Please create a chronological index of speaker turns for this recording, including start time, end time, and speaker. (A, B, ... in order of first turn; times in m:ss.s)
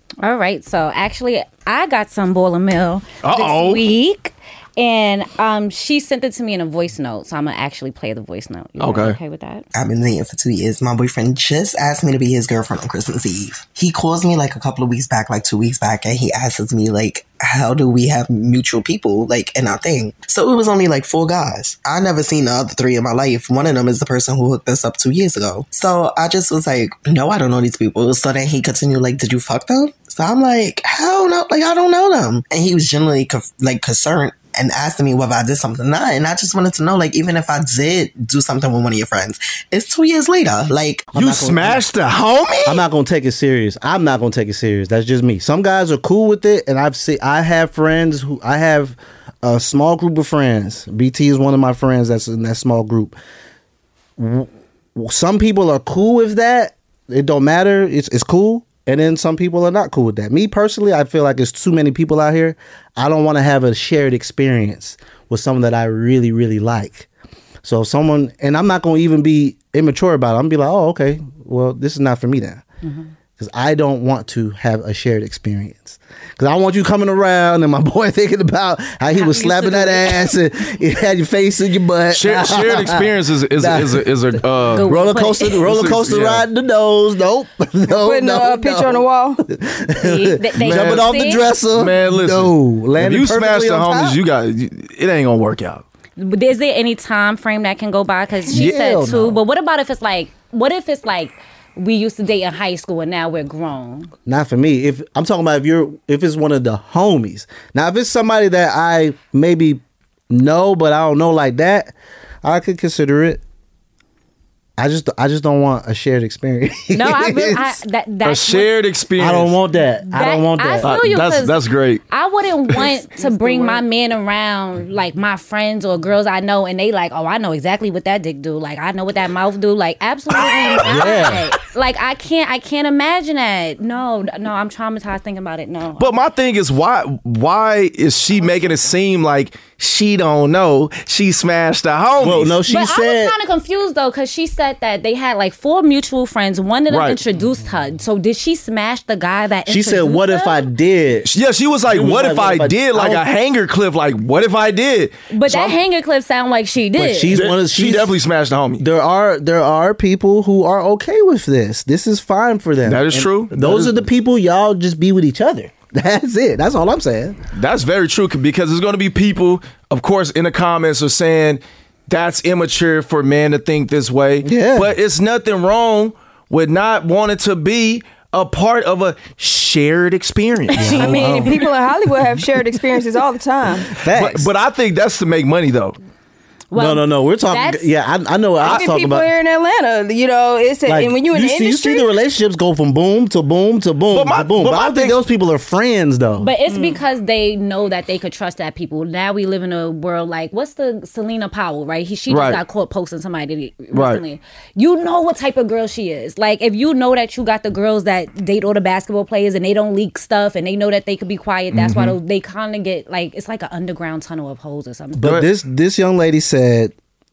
0:00.2-0:09.7 A
0:03.2-0:03.8 B
0:08.8-0:09.2 B
0:09.7-0:41.1 C
0:41.1-0:41.8 D
0:41.2-0:42.8 B
0:42.7-0:53.2 D
0:54.2-1:07.1 D
1:07.6-1:12.6 D
1:12.8-1:13.1 A
1:13.4-1:24.1 D
1:19.1-1:20.3 A
1:22.1-1:24.9 B
1:24.7-1:25.6 A
1:24.8-1:34.2 D
1:25.6-1:26.4 B
1:27.9-1:29.4 E
1:30.0-1:31.5 A
1:30.6-1:31.1 B
1:31.7-1:35.8 B
1:36.2-1:44.1 A
1:38.5-1:39.4 D
1:44.3-1:53.4 D
1:54.8-1:57.8 D
1:56.9-1:58.7 A
1:58.2-1:59.6 B
1:59.2-2:00.9 D
2:00.1-2:01.6 A
2:00.8-2:02.0 B
2:02.1-2:16.2 A
2:03.4-2:03.7 E
2:10.7-2:11.1 B
2:10.8-2:11.5 D
2:16.0-2:22.6 B
2:18.4-2:18.7 A
2:22.2-2:23.4 D
2:22.7-2:30.7 A
2:26.9-2:27.2 B
2:29.7-2:31.3 D
2:31.3-2:35.6 B
2:31.9-2:33.2 D
2:35.3-2:37.4 A
2:37.0-2:38.2 D
2:37.3-2:38.8 B
2:38.8-2:47.4 D
2:42.8-2:44.0 B
2:47.5-3:01.2 B
2:54.4-2:54.9 D
3:00.8-3:01.6 A
3:00.8-3:01.7 D
3:01.0-3:03.9 E
3:04.0-3:04.5 D
3:04.0-3:06.0 B
3:06.7-3:07.9 A
3:06.8-3:09.3 D
3:08.6-3:12.1 E
3:10.9-3:16.5 D
3:14.1-3:15.2 B
3:16.4-3:35.4 A
3:16.7-3:17.0 E
3:22.3-3:22.6 B
3:23.9-3:24.2 B
3:31.7-3:32.2 B
3:35.2-3:36.9 D